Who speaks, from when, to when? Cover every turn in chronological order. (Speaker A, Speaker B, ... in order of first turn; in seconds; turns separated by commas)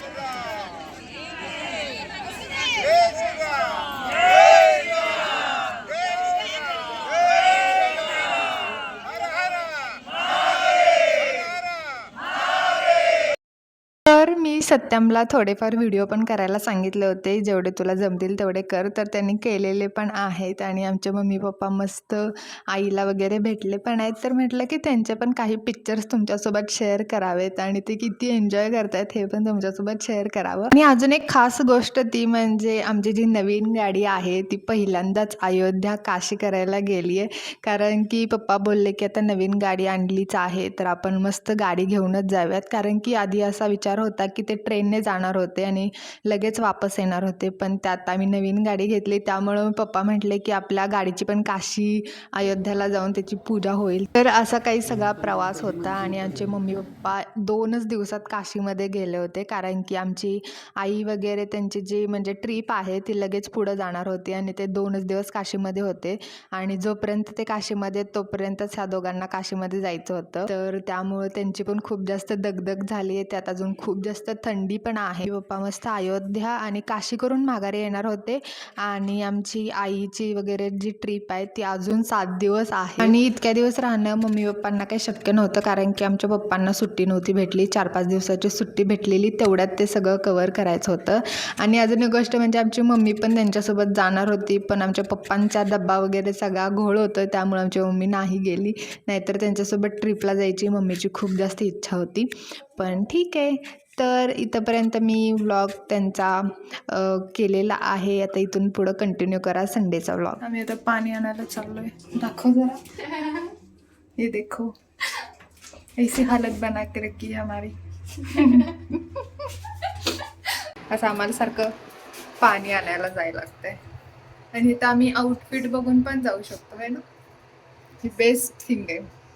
Speaker A: 14.0-113.5, Speaker A: 114.2-115.2, Speaker A: 116.0-120.1, Speaker A: 120.9-121.8, Speaker A: 122.4-123.8, Speaker A: 124.5-127.0, Speaker A: 128.0-129.1